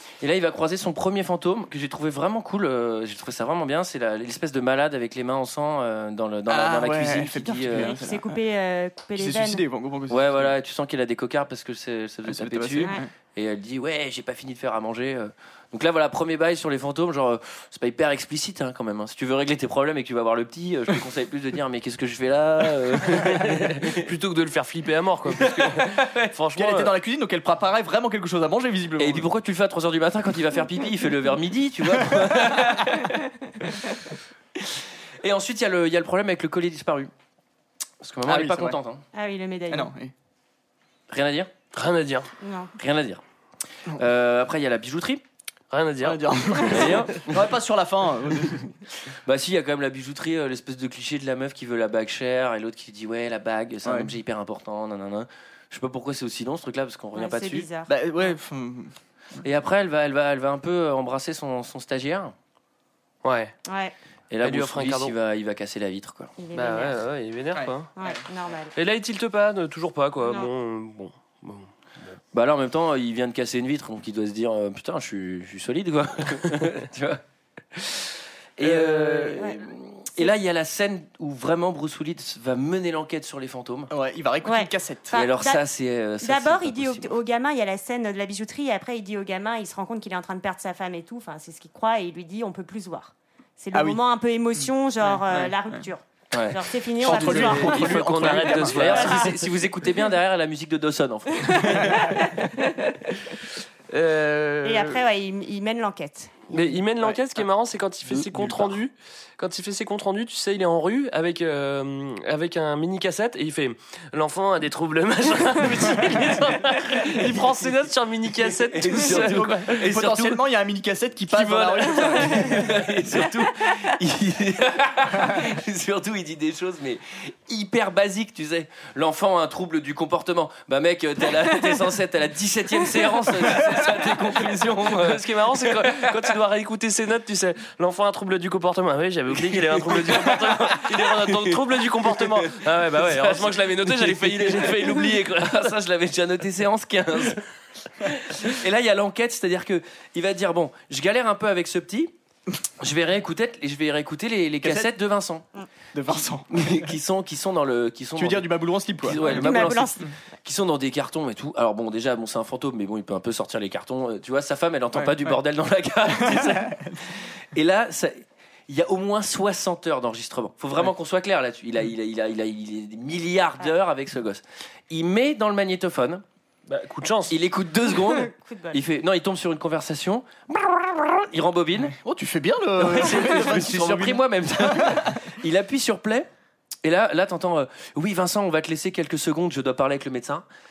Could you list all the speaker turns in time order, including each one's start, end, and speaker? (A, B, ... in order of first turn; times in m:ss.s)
0:00.2-0:08.0 A
0:06.5-0:08.4 B
0:07.8-0:09.6 C
0:09.2-0:10.5 B
0:10.1-0:24.0 A
0:12.3-0:13.1 B
0:23.2-0:26.9 D
0:25.4-0:26.3 A
0:26.6-0:29.3 B
0:29.0-0:33.7 A
0:35.2-0:37.1 A
0:38.0-0:39.0 A
0:38.2-0:38.8 B
0:39.1-0:39.9 C
0:39.7-0:40.1 B
0:41.1-0:41.5 A
0:41.7-0:42.3 D
0:42.4-0:42.7 C
0:42.8-0:43.2 A
0:43.9-0:45.2 A
0:45.7-0:46.9 D
0:46.0-0:48.8 B
0:46.7-0:47.4 A
0:49.2-0:57.7 A
0:53.8-0:54.1 B
0:57.1-0:57.9 C
0:57.9-0:58.9 B
0:59.4-1:02.3 A
1:03.2-1:03.5 D
1:03.7-1:03.9 C
1:04.3-1:06.3 A
1:04.4-1:05.1 D
1:06.4-1:07.0 C
1:06.5-1:07.9 D
1:07.6-1:08.2 B
1:08.0-1:08.7 C
1:08.8-1:12.1 D
1:10.2-1:10.5 C
1:12.3-1:17.2 A
1:17.7-1:23.9 A
1:18.6-1:19.3 D
1:23.9-1:25.2 B
1:24.4-1:25.6 C
1:25.1-1:27.1 A
1:26.2-1:37.9 C
1:33.7-1:34.0 B
1:34.6-1:35.9 B
1:36.3-1:42.2 A
1:37.0-1:38.8 B
1:37.1-1:39.3 D
1:38.8-1:39.4 C
1:41.4-1:42.7 C
1:43.9-1:45.0 D
1:44.6-1:46.5 C
1:46.5-1:59.9 D
1:48.2-1:48.6 B
1:56.7-1:57.7 A
1:58.6-2:00.4 A
1:58.9-2:02.7 B
2:01.3-2:02.4 D
2:02.2-2:16.1 A
2:14.9-2:25.7 D
2:19.5-2:27.4 A
2:28.0-2:32.1 A
2:32.8-2:35.4 A
2:34.6-2:34.9 B
2:35.9-2:36.9 B
2:36.1-2:56.2 A
2:38.2-2:39.5 B
2:39.2-2:40.1 C
2:44.9-2:45.4 B
2:46.2-2:47.0 B
2:56.7-2:57.3 D
2:57.3-3:02.0 A
2:58.0-2:58.8 C
3:01.9-3:05.2 B
3:02.8-3:06.3 A
3:06.8-3:10.4 A